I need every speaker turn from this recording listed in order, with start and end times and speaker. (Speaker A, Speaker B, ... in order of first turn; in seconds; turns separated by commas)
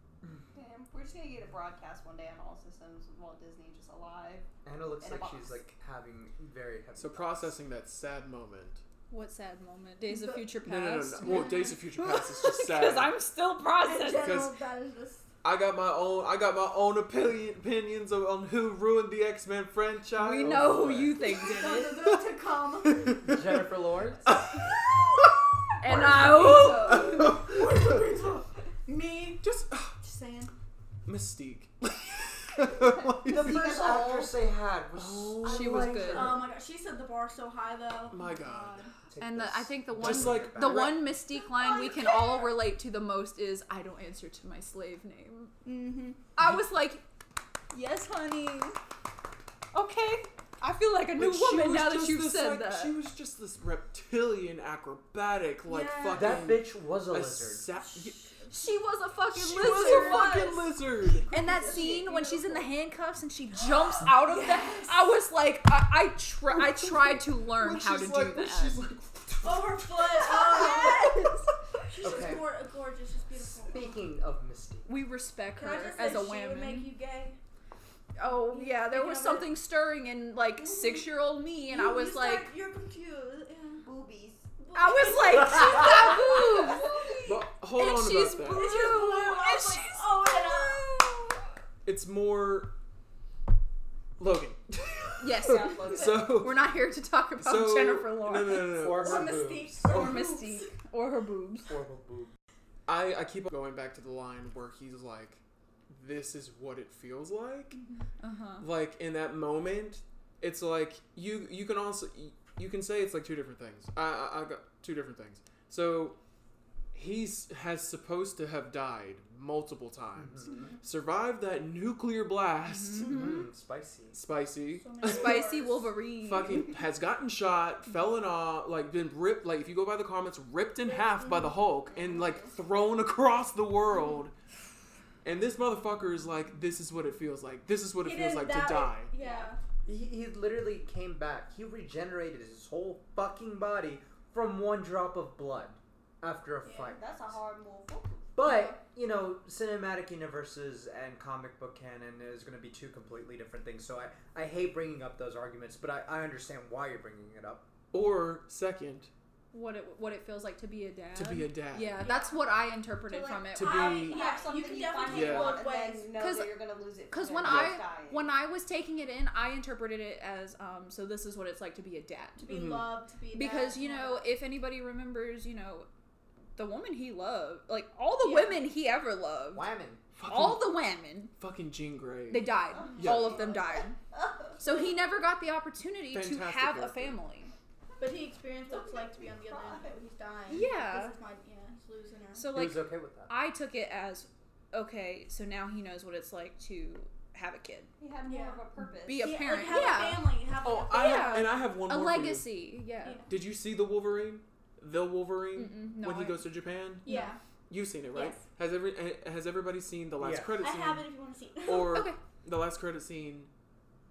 Speaker A: 0.5-4.5, Speaker B: 4.7-7.5, Speaker A: 5.0-5.6, Speaker C: 7.0-8.8, Speaker D: 9.1-14.3, Speaker E: 10.1-10.6, Speaker C: 10.6-13.2, Speaker E: 11.2-11.8, Speaker E: 13.8-15.3, Speaker C: 14.2-14.5, Speaker C: 15.4-22.2, Speaker D: 20.2-22.0, Speaker B: 20.4-20.8, Speaker E: 21.3-23.2, Speaker C: 22.8-23.6, Speaker B: 23.2-24.2, Speaker C: 24.3-28.1, Speaker E: 24.6-24.8, Speaker D: 25.8-27.3, Speaker E: 25.8-30.5, Speaker C: 29.4-30.0, Speaker C: 31.1-33.8, Speaker A: 33.0-34.3, Speaker B: 33.2-36.5, Speaker C: 34.9-36.2, Speaker D: 35.4-36.4, Speaker E: 36.1-38.9, Speaker C: 38.1-38.9, Speaker B: 39.1-41.0, Speaker D: 39.2-45.5, Speaker C: 39.9-41.1, Speaker E: 41.4-42.5, Speaker E: 45.6-46.2, Speaker D: 46.4-47.0, Speaker D: 47.7-48.8, Speaker D: 49.7-53.0, Speaker C: 51.2-58.3, Speaker E: 55.7-56.4, Speaker B: 56.1-57.7, Speaker E: 57.9-58.5, Speaker D: 58.5-60.5, Speaker C: 59.3-61.3, Speaker E: 59.6-60.6, Speaker A: 61.2-62.6, Speaker D: 61.3-68.8, Speaker E: 61.3-62.0, Speaker A: 64.4-64.9, Speaker C: 66.5-70.7, Speaker E: 69.4-74.0, Speaker D: 70.5-71.5, Speaker B: 72.0-72.5, Speaker B: 73.4-74.9, Speaker D: 74.9-76.9, Speaker E: 75.6-77.4, Speaker D: 78.2-82.5, Speaker E: 78.3-79.5, Speaker E: 80.7-81.0, Speaker E: 81.7-83.9, Speaker A: 83.8-84.5, Speaker E: 84.6-87.2, Speaker D: 84.7-91.4, Speaker C: 87.2-88.7, Speaker E: 88.5-90.9, Speaker C: 91.8-92.7, Speaker C: 94.2-96.6, Speaker D: 95.2-98.8, Speaker A: 95.4-96.4, Speaker C: 97.4-100.3, Speaker B: 98.7-100.0, Speaker E: 99.0-100.7, Speaker D: 99.8-101.8, Speaker B: 101.7-102.3, Speaker C: 102.9-107.8, Speaker D: 108.2-108.7, Speaker C: 108.6-116.2, Speaker C: 116.9-123.3, Speaker B: 120.2-120.6, Speaker E: 120.5-120.8, Speaker D: 122.7-123.5, Speaker B: 123.0-124.2, Speaker C: 124.1-125.4, Speaker E: 124.8-125.9, Speaker D: 125.1-126.7, Speaker C: 126.2-134.3, Speaker E: 130.8-131.7, Speaker A: 131.8-132.6, Speaker C: 135.2-139.1, Speaker E: 138.0-139.6, Speaker A: 139.2-139.5, Speaker B: 139.9-147.3, Speaker E: 146.6-147.0, Speaker A: 146.8-148.3, Speaker B: 148.4-157.7, Speaker E: 148.4-148.8, Speaker C: 157.9-159.1, Speaker D: 159.5-164.2, Speaker C: 161.2-162.0, Speaker A: 162.0-162.5, Speaker A: 163.0-168.3, Speaker C: 163.5-164.2, Speaker E: 163.6-166.2, Speaker C: 165.1-165.6, Speaker D: 166.1-166.6, Speaker D: 167.1-172.4, Speaker C: 167.4-167.7, Speaker E: 172.4-174.1, Speaker C: 172.5-172.9, Speaker D: 173.3-175.9, Speaker A: 173.8-174.1, Speaker D: 176.6-179.7, Speaker E: 178.2-178.7, Speaker B: 179.5-180.0, Speaker C: 180.2-180.8, Speaker D: 180.3-181.3, Speaker C: 181.4-183.5, Speaker D: 182.3-184.0, Speaker A: 182.8-184.6, Speaker E: 182.9-183.3, Speaker D: 184.6-187.5, Speaker E: 184.6-184.9, Speaker C: 186.1-187.2, Speaker E: 188.0-192.5, Speaker A: 188.7-190.1, Speaker D: 190.5-191.2, Speaker D: 192.3-197.9, Speaker B: 192.5-193.3, Speaker A: 198.0-199.8, Speaker E: 198.2-198.7, Speaker D: 198.8-200.3, Speaker E: 199.2-201.5, Speaker C: 200.6-202.6, Speaker D: 200.9-203.2, Speaker E: 203.0-203.3, Speaker C: 203.3-207.1, Speaker D: 205.6-206.5, Speaker D: 207.1-207.3, Speaker E: 207.1-207.4, Speaker C: 207.7-211.1, Speaker B: 210.2-210.6, Speaker E: 210.6-212.0, Speaker C: 211.7-213.5, Speaker D: 211.9-212.2